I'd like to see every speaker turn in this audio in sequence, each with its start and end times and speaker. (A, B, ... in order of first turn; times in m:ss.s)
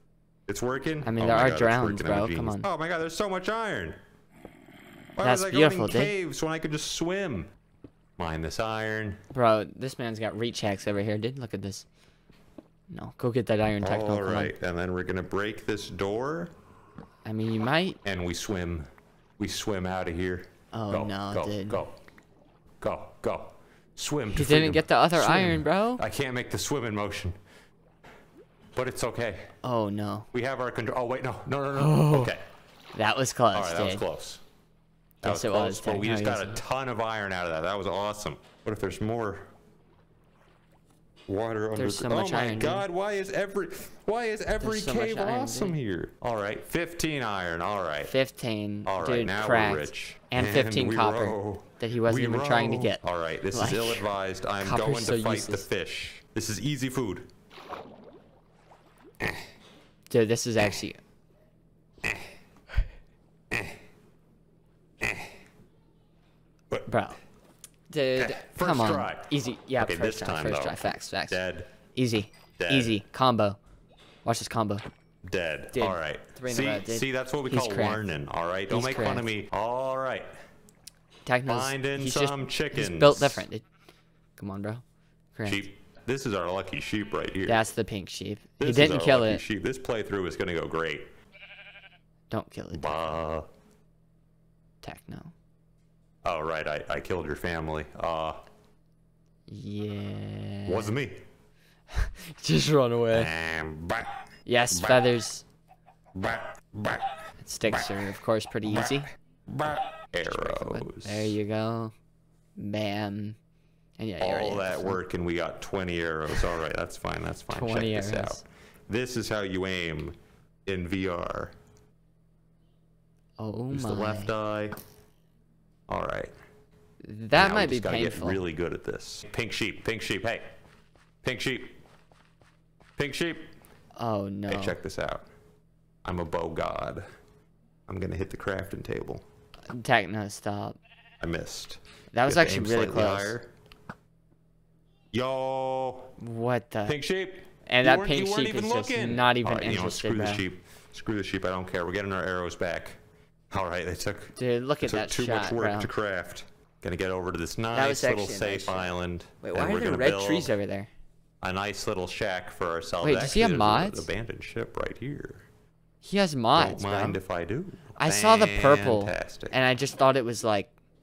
0:00.5-0:04.0 A
0:01.0-0:02.7 B
0:05.1-0:07.5 A
0:05.2-0:06.1 B
0:08.2-0:09.2 A
0:09.3-0:11.9 B
0:12.9-0:14.5 B
0:13.8-0:16.5 A
0:17.2-0:18.0 B
0:18.0-0:22.0 A
0:20.7-0:21.8 B
0:22.8-0:27.4 A
0:24.3-0:26.0 B
0:28.7-0:29.5 A
0:29.6-0:30.3 B
0:30.3-0:32.4 A
0:31.8-0:32.3 B
0:32.9-0:34.0 B
0:33.5-0:34.4 A
0:35.2-0:36.6 B
0:35.2-0:39.5 A
0:41.3-0:48.1 A
0:41.7-0:42.8 B
0:44.6-0:45.8 B
0:48.0-0:53.0 B
0:48.8-0:57.3 A
0:53.5-0:54.1 B
0:54.6-0:55.6 B
1:00.1-1:01.0 B
1:02.0-1:02.3 A
1:03.5-1:03.8 A
1:05.0-1:05.3 A
1:06.9-1:07.2 B
1:07.9-1:11.4 B
1:08.2-1:11.7 A
1:11.9-1:13.6 B
1:12.6-1:13.0 A
1:14.2-1:14.8 B
1:15.2-1:20.3 A
1:15.7-1:18.1 B
1:18.7-1:19.3 B
1:21.2-1:23.6 B
1:21.5-1:23.4 A
1:24.4-1:25.6 B
1:25.5-1:27.6 A
1:27.4-1:29.4 B
1:28.6-1:31.1 A
1:32.3-1:33.2 B
1:32.7-1:33.5 A
1:34.8-1:35.3 B
1:36.2-1:38.4 A
1:39.5-1:41.0 B
1:40.6-1:41.2 A
1:41.9-1:43.3 B
1:43.1-1:45.0 A
1:44.4-1:45.4 B
1:46.1-1:47.2 A
1:47.4-1:49.1 B
1:48.7-1:51.4 A
1:50.3-1:51.9 B
1:52.6-1:53.4 B
1:54.0-1:55.0 B
1:54.2-2:01.5 A
1:57.5-1:58.4 B
2:03.4-2:04.3 B
2:03.7-2:04.8 A
2:05.9-2:06.3 A
2:07.0-2:08.4 B
2:07.4-2:10.5 A
2:11.2-2:11.8 A
2:13.0-2:13.5 A
2:14.0-2:14.8 B
2:14.5-2:15.3 A
2:16.0-2:17.0 A
2:17.9-2:19.2 A
2:19.7-2:20.8 B
2:21.2-2:23.5 A
2:22.1-2:23.4 B
2:25.1-2:26.1 A
2:26.2-2:27.0 B
2:26.8-2:33.0 A
2:27.6-2:30.4 B
2:33.5-2:40.5 A
2:34.4-2:35.9 B
2:37.7-2:40.9 B
2:41.4-2:45.4 A
2:43.0-2:44.1 B
2:46.0-2:47.2 B
2:46.5-2:49.6 A
2:48.0-2:50.7 B